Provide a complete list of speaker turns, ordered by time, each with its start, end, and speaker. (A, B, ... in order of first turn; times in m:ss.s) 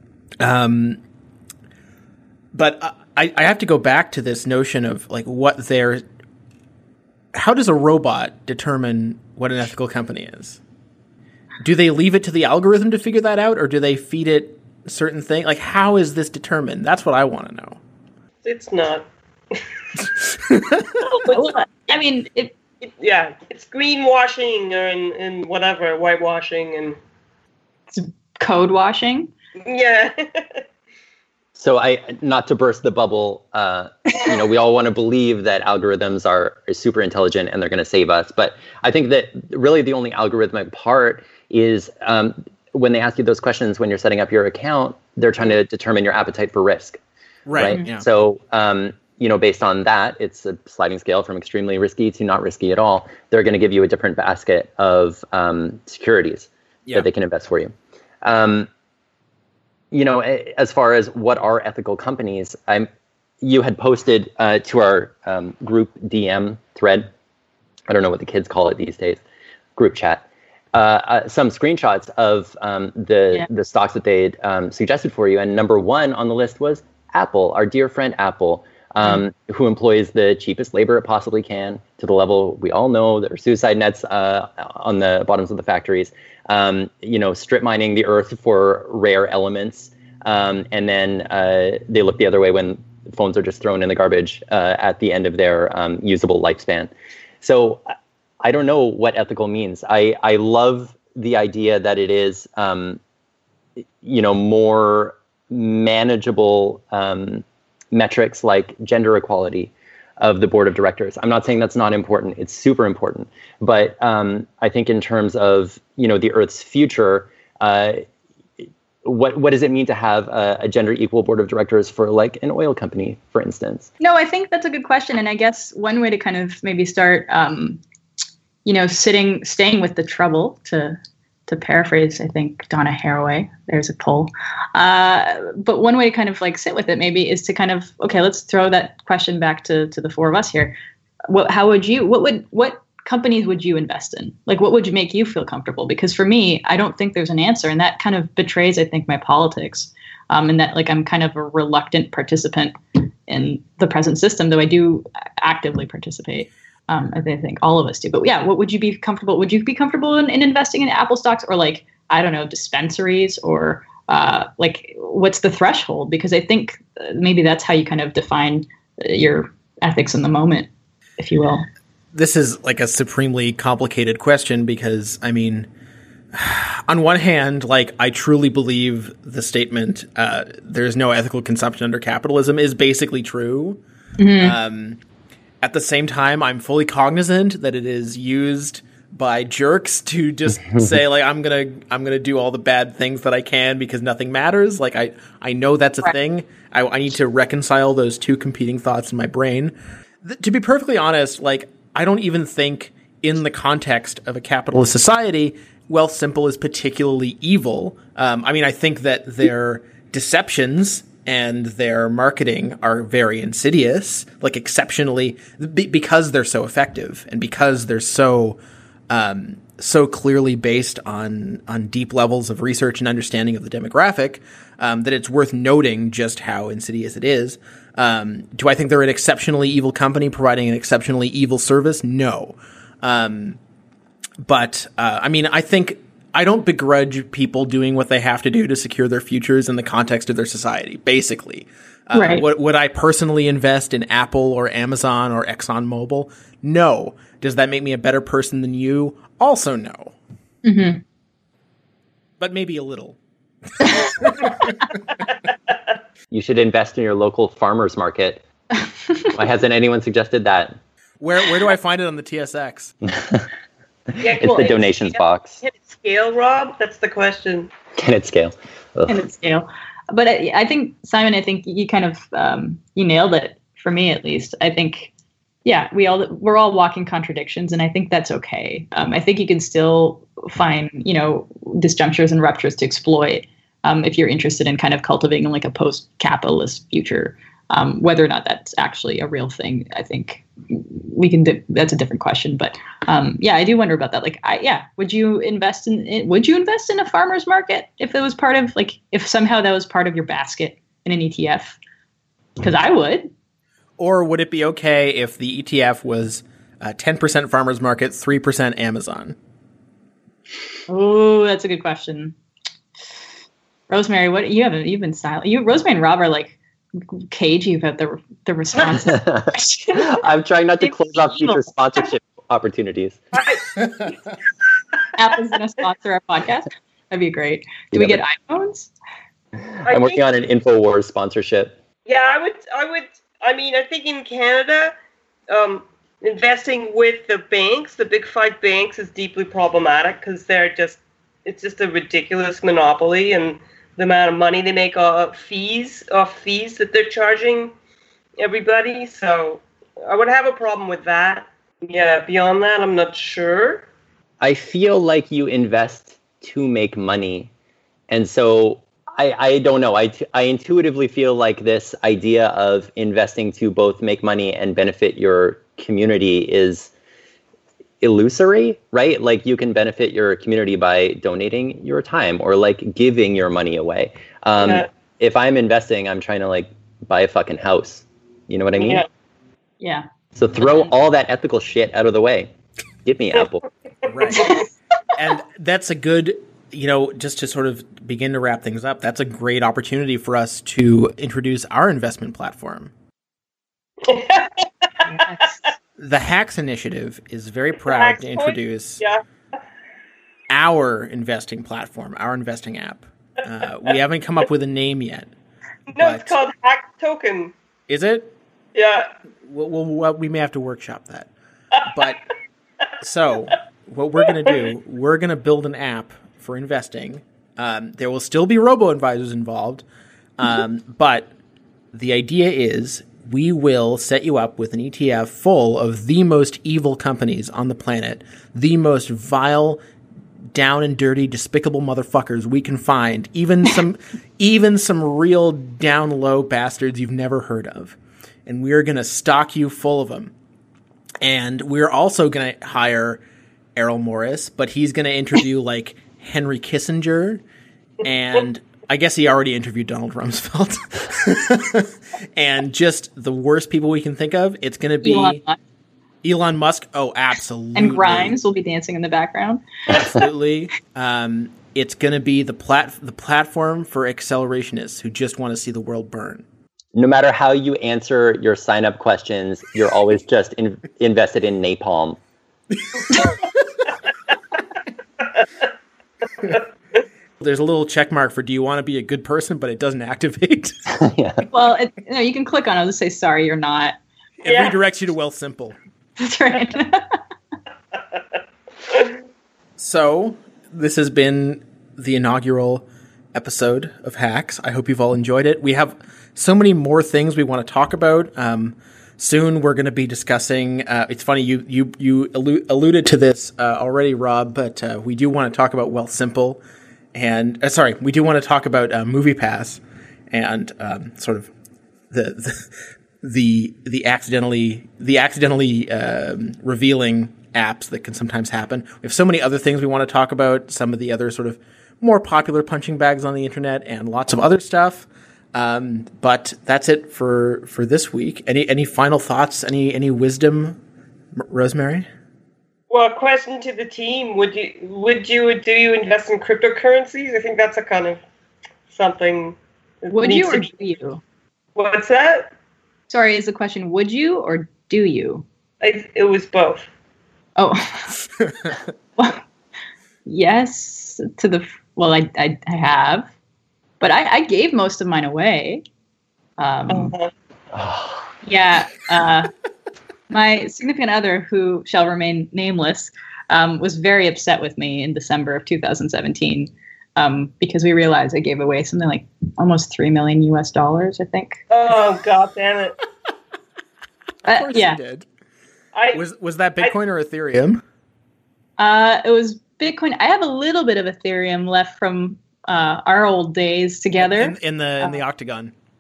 0:00.4-0:01.0 A
0:02.6-0:06.0 A
0:07.4-0:10.6 A
0:11.6-0:17.8 A
0:18.4-0:19.6 B
0:20.3-0:20.9 A
0:21.2-0:21.5 B
0:21.2-0:22.5 C
0:22.8-0:27.0 B
0:27.9-0:29.3 C
0:29.6-0:30.6 B
0:31.6-0:47.0 D
0:47.5-0:48.0 A
0:47.6-0:58.7 D
0:59.9-1:02.9 D
1:03.4-1:07.1 D
1:07.9-1:09.2 D
1:09.8-1:36.9 D
1:37.4-1:37.8 D
1:38.4-1:43.0 D
1:44.0-1:58.0 D
1:59.0-2:03.9 D
2:04.0-2:07.8 C
2:08.6-2:20.8 C
2:21.3-2:32.8 C
2:33.3-2:50.7 C
2:51.2-2:51.6 C
2:52.1-2:55.7 A
2:56.3-3:03.8 A
3:04.2-3:04.6 C
3:04.4-3:05.0 A
3:05.6-3:38.6 A
3:39.1-3:53.6 A
3:54.4-4:10.1 A
4:02.1-4:02.4 C
4:10.6-4:11.0 C
4:12.4-4:13.2 A
4:13.8-4:14.8 A
4:15.3-4:15.8 B
4:16.3-4:18.4 D
4:19.3-4:20.8 D
4:21.2-4:22.9 A
4:23.2-4:23.4 D
4:24.2-4:27.7 B
4:24.4-4:25.6 D
4:24.4-4:24.7 C
4:28.0-4:29.2 D
4:29.1-4:35.1 C
4:35.6-5:01.8 C
5:02.6-5:03.3 C
5:04.0-5:09.4 A
5:10.9-5:12.3 C
5:13.9-5:16.6 C
5:17.2-5:20.2 C
5:18.9-5:23.2 D
5:20.8-5:21.6 C
5:23.3-5:24.1 B
5:25.2-5:28.9 C
5:27.9-5:28.2 D
5:29.7-5:31.8 D
5:29.9-5:30.2 B
5:32.1-5:34.9 B
5:35.5-5:47.7 B
5:48.4-5:53.9 B
5:54.4-5:57.5 D
5:58.1-6:06.9 D
6:08.0-6:19.1 D
6:14.6-6:14.9 B
6:18.8-6:19.1 B
6:20.4-6:22.5 D
6:23.0-6:23.6 D
6:24.1-6:24.5 A
6:24.4-6:24.6 C
6:25.1-6:32.9 A
6:34.0-6:35.3 B
6:35.1-6:35.6 C
6:36.0-6:39.0 A
6:37.9-6:39.2 B
6:40.5-6:45.3 A
6:45.9-6:47.5 B
6:46.0-6:46.4 A
6:47.9-6:48.3 A
6:48.8-6:49.1 B
6:49.4-6:51.3 A
6:51.9-6:52.2 A
6:53.0-6:59.8 A
7:00.4-7:01.3 A
7:01.9-7:09.8 A
7:10.5-7:18.0 A
7:18.5-7:20.3 A
7:21.2-7:23.2 A
7:23.8-7:27.4 A
7:28.0-7:35.4 A
7:35.0-7:35.6 C
7:36.2-7:38.4 A
7:37.8-7:39.6 C
7:39.9-7:46.4 A
7:46.9-7:52.2 D
7:57.4-8:00.7 A
8:00.9-8:01.4 D
8:01.5-8:04.0 C
8:04.4-8:05.8 A
8:04.5-8:04.8 B
8:06.2-8:07.0 C
8:08.9-8:09.2 B
8:09.8-8:26.6 A
8:27.1-8:29.8 A
8:30.3-8:31.5 A
8:32.1-8:50.8 A
8:51.4-8:52.1 A
8:52.9-8:58.2 B
8:58.9-9:00.7 B
9:00.1-9:01.2 C
9:01.8-9:02.5 B
9:03.1-9:05.4 C
9:05.8-9:06.9 B
9:07.6-9:08.2 C
9:10.2-9:13.3 C
9:14.0-9:15.8 C
9:16.6-9:17.1 C
9:16.9-9:17.3 B
9:17.7-9:18.3 D
9:18.4-9:19.5 C
9:20.3-9:31.6 C
9:31.7-9:32.9 B
9:34.4-9:35.0 C
9:34.5-9:35.2 A
9:35.9-9:36.2 B
9:36.1-9:37.8 A
9:38.8-9:45.2 C
9:44.2-9:45.7 A